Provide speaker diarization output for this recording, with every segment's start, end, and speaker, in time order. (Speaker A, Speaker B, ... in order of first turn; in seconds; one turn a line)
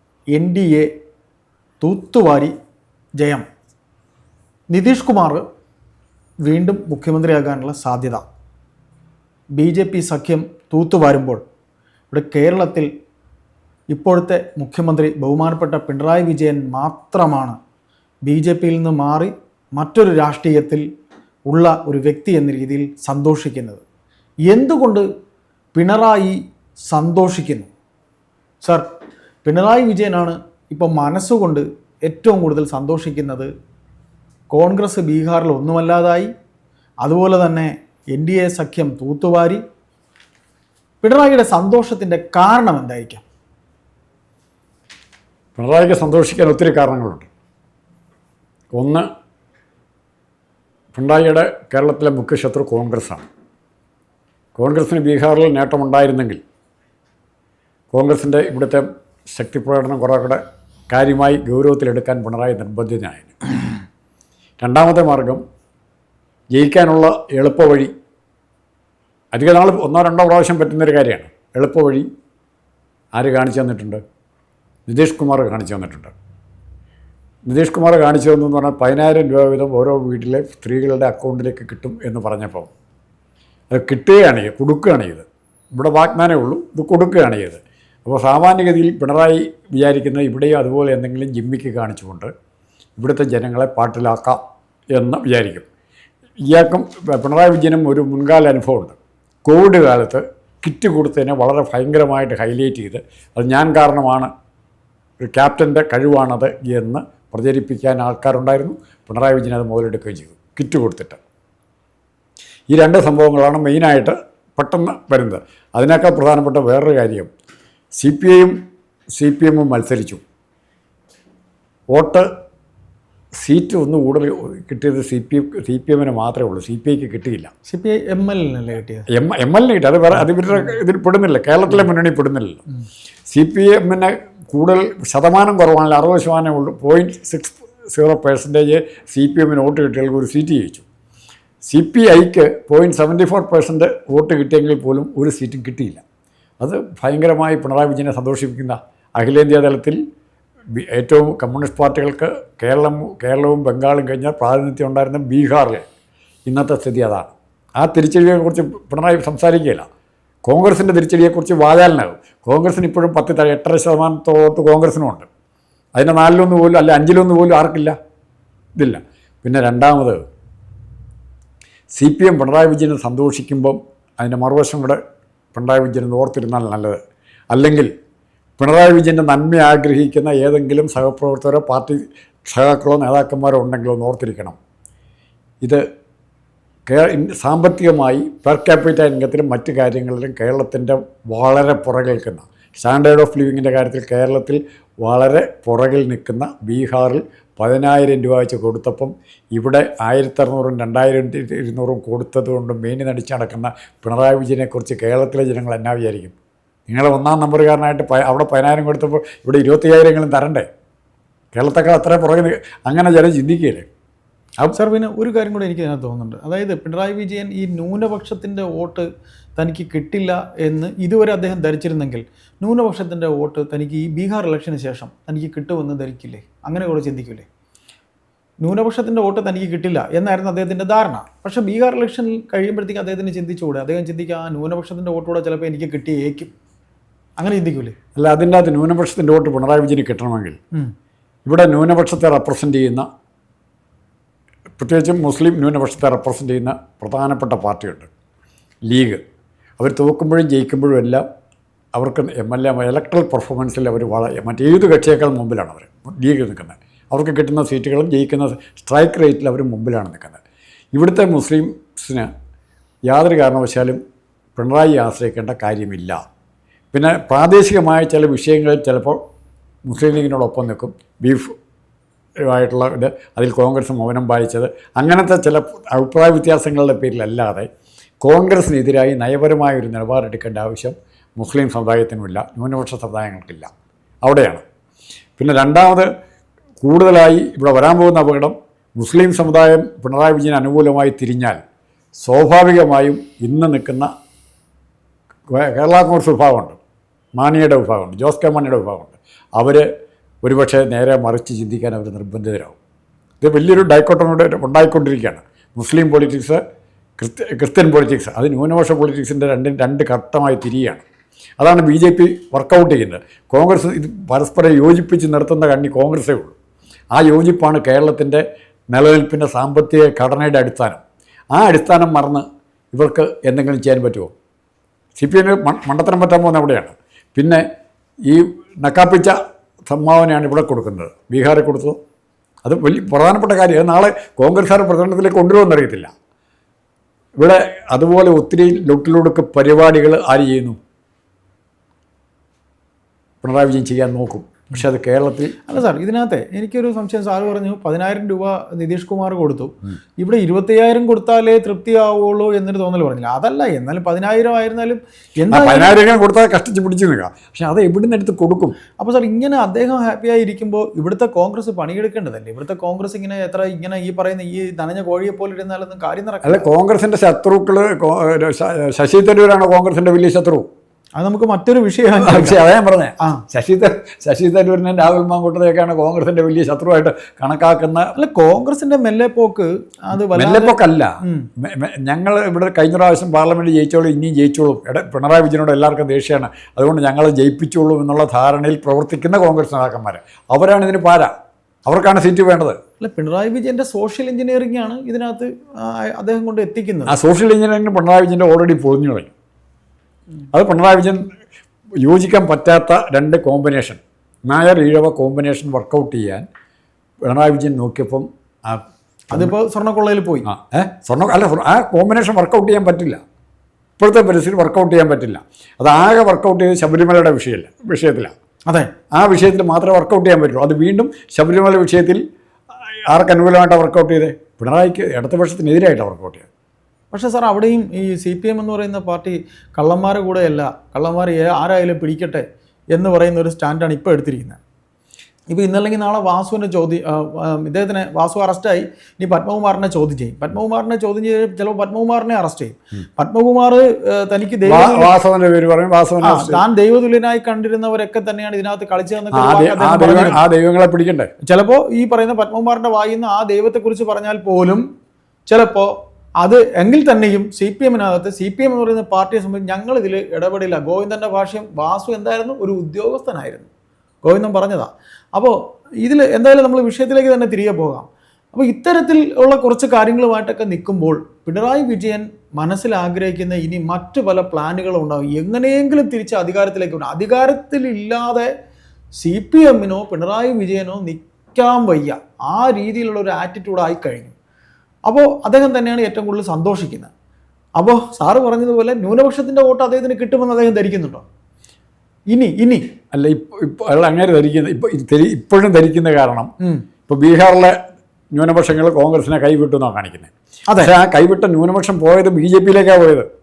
Speaker A: 0.3-0.9
Speaker A: 1.8-2.5
Speaker A: 3.2-3.5
Speaker A: 4.7-5.4
Speaker A: 6.5-8.2
Speaker A: 9.6-11.4
Speaker A: 12.1-12.9
Speaker A: 13.9-17.6
Speaker A: 18.3-20.9
Speaker A: 21.5-23.8
Speaker A: 24.5-25.1
Speaker A: 25.7-26.4
Speaker A: 26.9-27.7
Speaker A: 29.4-33.5
Speaker A: 34.5-36.3
Speaker A: 37.0-39.6
Speaker A: 41.0-43.2
Speaker B: 45.6-47.3
Speaker B: 48.7-49.1
Speaker B: 50.9-53.2
Speaker B: 54.6-56.4
Speaker B: 57.9-63.5
Speaker B: 64.6-65.4
Speaker B: 66.5-67.9
Speaker B: 69.3-72.1
Speaker B: 73.1-74.0
Speaker B: 74.9-76.1
Speaker B: 77.5-82.7
Speaker B: 83.7-92.3
Speaker B: 93.0-94.4
Speaker B: 94.9-95.7
Speaker B: 96.5-104.3
Speaker B: 105.2-111.2
Speaker B: 112.7-117.3
Speaker B: 118.0-118.6
Speaker B: 119.2-120.2
Speaker B: 121.9-122.3
Speaker B: 123.4-127.5
Speaker A: 127.7-129.1
Speaker B: 129.1-132.6
Speaker B: 133.3-140.8
Speaker B: 141.6-146.0
Speaker B: 146.6-150.0
Speaker B: 150.8-155.8
Speaker B: 156.5-159.9
Speaker B: 160.4-165.3
Speaker B: 166.0-168.0
Speaker B: 168.8-170.2
Speaker B: 171.9-175.0
Speaker B: 175.5-177.0
Speaker B: 177.5-177.9
Speaker B: 178.6-184.6
Speaker B: 186.9-206.3
Speaker B: 206.9-210.7
Speaker B: 211.5-213.9
Speaker A: 214.7-219.1
Speaker A: 219.6-227.5
Speaker A: 228.6-236.5
Speaker A: 237.4-237.9
Speaker B: 238.2-240.6
Speaker B: 241.4-243.1
Speaker B: 244.8-248.1
Speaker B: 248.9-249.2
Speaker B: 249.8-251.2
Speaker B: 251.9-260.4
Speaker B: 260.9-262.3
Speaker B: 263.1-264.0
Speaker B: 264.6-266.2
Speaker B: 266.9-269.2
Speaker B: 269.9-271.5
Speaker B: 272.5-277.7
Speaker B: 278.2-283.7
Speaker B: 284.2-284.6
Speaker B: 285.4-286.1
Speaker B: 286.8-291.6
Speaker B: 292.2-294.1
Speaker B: 295.5-296.8
Speaker B: 297.4-299.9
Speaker B: 300.4-302.8
Speaker B: 303.4-306.6
Speaker B: 307.2-311.0
Speaker B: 311.6-316.6
Speaker B: 317.1-321.0
Speaker B: 321.5-324.3
Speaker B: 325.2-327.6
Speaker B: 328.3-332.0
Speaker B: 332.6-336.1
Speaker B: 337.4-340.8
Speaker B: 343.4-345.6
Speaker A: 345.7-356.0
Speaker B: 355.5-358.8
Speaker A: 359.0-366.6
Speaker B: 366.4-370.7
Speaker A: 371.2-372.6
Speaker B: 372.2-378.1
Speaker A: 378.2-381.5
Speaker B: 380.3-391.3
Speaker B: 391.9-392.8
Speaker A: 393.0-397.1
Speaker B: 397.1-399.3
Speaker B: 400.5-401.3
Speaker B: 402.0-406.4
Speaker B: 407.3-409.5
Speaker A: 409.3-410.5
Speaker B: 410.5-413.2
Speaker B: 414.0-418.3
Speaker B: 419.1-422.2
Speaker B: 423.1-426.5
Speaker A: 427.1-434.6
Speaker A: 435.5-445.1
Speaker B: 444.7-446.6
Speaker A: 446.2-450.4
Speaker B: 449.3-451.3
Speaker A: 451.4-454.9
Speaker A: 455.5-463.7
Speaker A: 464.2-478.5
Speaker A: 479.2-484.3
Speaker A: 485.1-487.1
Speaker A: 487.8-491.3
Speaker A: 492.3-492.9
Speaker B: 493.1-496.5
Speaker B: 497.1-497.8
Speaker B: 498.3-503.3